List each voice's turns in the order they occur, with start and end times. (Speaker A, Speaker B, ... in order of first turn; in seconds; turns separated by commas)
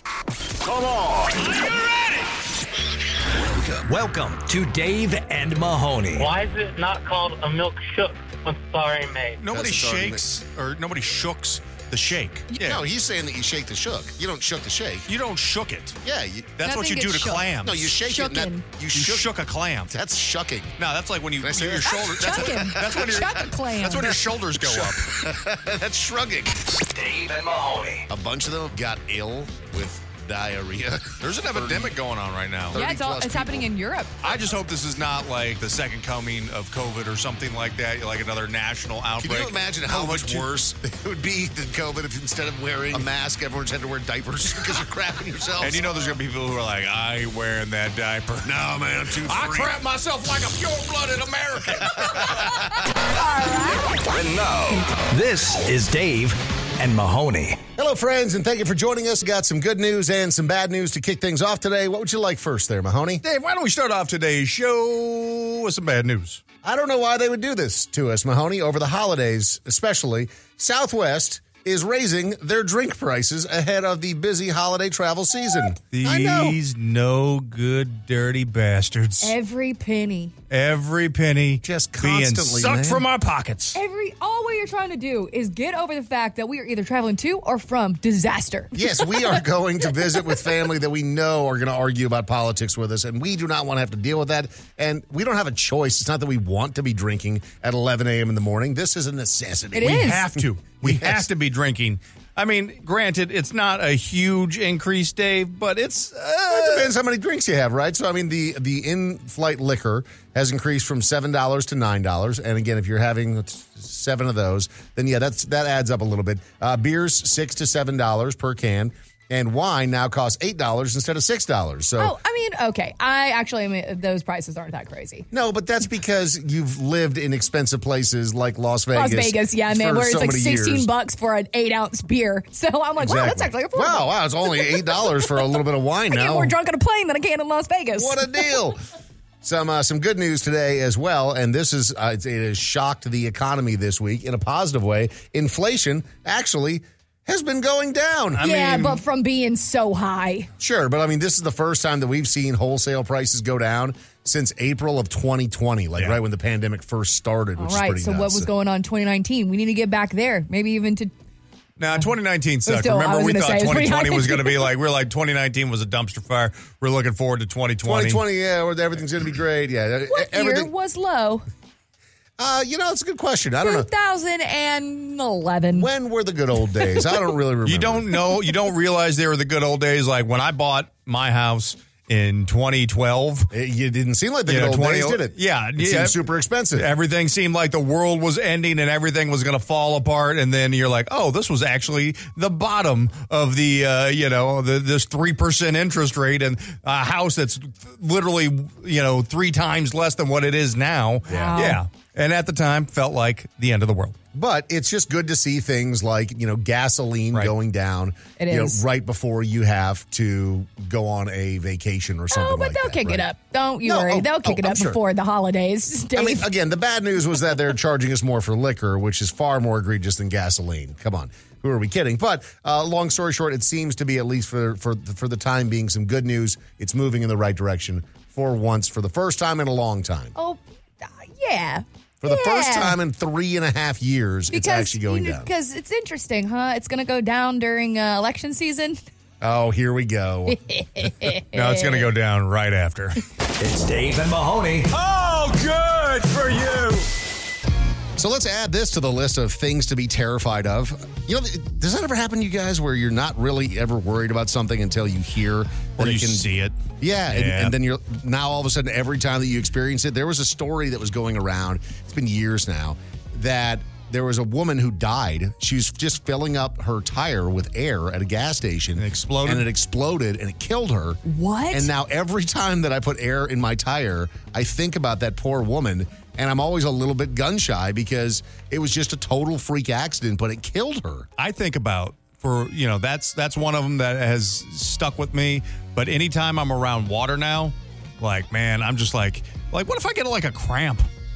Speaker A: 0.6-1.7, Speaker A: 3.5-6.3, Speaker B: 6.2-9.4, Speaker C: 9.4-12.8, Speaker D: 9.5-10.2, Speaker D: 12.6-15.1, Speaker C: 15.1-16.0, Speaker D: 16.0-16.6, Speaker C: 16.6-17.9, Speaker E: 16.6-17.5, Speaker D: 17.6-19.3, Speaker E: 18.0-18.6, Speaker C: 18.9-19.9, Speaker D: 19.9-20.8, Speaker C: 20.8-25.1, Speaker D: 21.4-23.3, Speaker E: 21.8-24.2, Speaker D: 24.6-26.6, Speaker A: 26.8-28.1, Speaker D: 28.1-31.9, Speaker C: 31.2-32.8, Speaker D: 32.7-33.7, Speaker E: 32.7-34.1, Speaker C: 34.2-40.5, Speaker D: 39.2-46.1, Speaker C: 45.6-48.5, Speaker D: 48.4-49.8, Speaker C: 49.2-52.5, Speaker D: 51.6-52.9, Speaker E: 53.0-54.0, Speaker A: 54.0-57.6, Speaker D: 57.8-63.2, Speaker C: 63.2-66.4, Speaker D: 66.6-76.6, Speaker C: 75.9-79.3, Speaker E: 79.2-80.3, Speaker C: 80.5-83.8, Speaker D: 81.6-83.0, Speaker E: 83.7-89.4, Speaker D: 88.7-101.3, Speaker E: 99.7-100.2, Speaker C: 99.8-106.9, Speaker D: 106.5-122.1, Speaker E: 122.0-125.2, Speaker D: 125.3-130.9, Speaker E: 128.9-135.3, Speaker D: 133.0-136.5, Speaker E: 136.1-138.6, Speaker D: 137.9-138.8, Speaker D: 139.4-148.5, Speaker C: 148.3-149.0, Speaker E: 148.4-150.5, Speaker D: 150.6-158.5, Speaker E: 157.6-161.1, Speaker C: 161.8-168.2, Speaker E: 162.7-164.7, Speaker D: 167.8-170.7, Speaker E: 170.1-171.4, Speaker D: 172.4-173.9, Speaker E: 173.6-175.9, Speaker D: 175.7-178.1, Speaker C: 177.7-183.5, Speaker D: 183.5-186.9, Speaker C: 184.5-186.2, Speaker C: 186.8-204.2, Speaker D: 201.3-201.6, Speaker E: 201.3-201.8, Speaker D: 204.3-213.2, Speaker E: 208.4-208.8, Speaker E: 212.3-216.4, Speaker D: 213.8-215.0, Speaker D: 216.1-230.3, Speaker E: 230.3-233.0, Speaker D: 232.2-235.5, Speaker E: 234.5-239.0, Speaker D: 239.4-240.6, Speaker E: 240.5-242.1, Speaker C: 241.5-243.2, Speaker A: 243.6-247.0, Speaker C: 245.1-246.0, Speaker D: 248.2-256.4, Speaker C: 256.0-256.8, Speaker D: 257.0-271.2, Speaker C: 257.3-257.7, Speaker C: 269.0-269.7, Speaker E: 271.2-271.9, Speaker D: 271.7-281.3, Speaker C: 281.4-291.1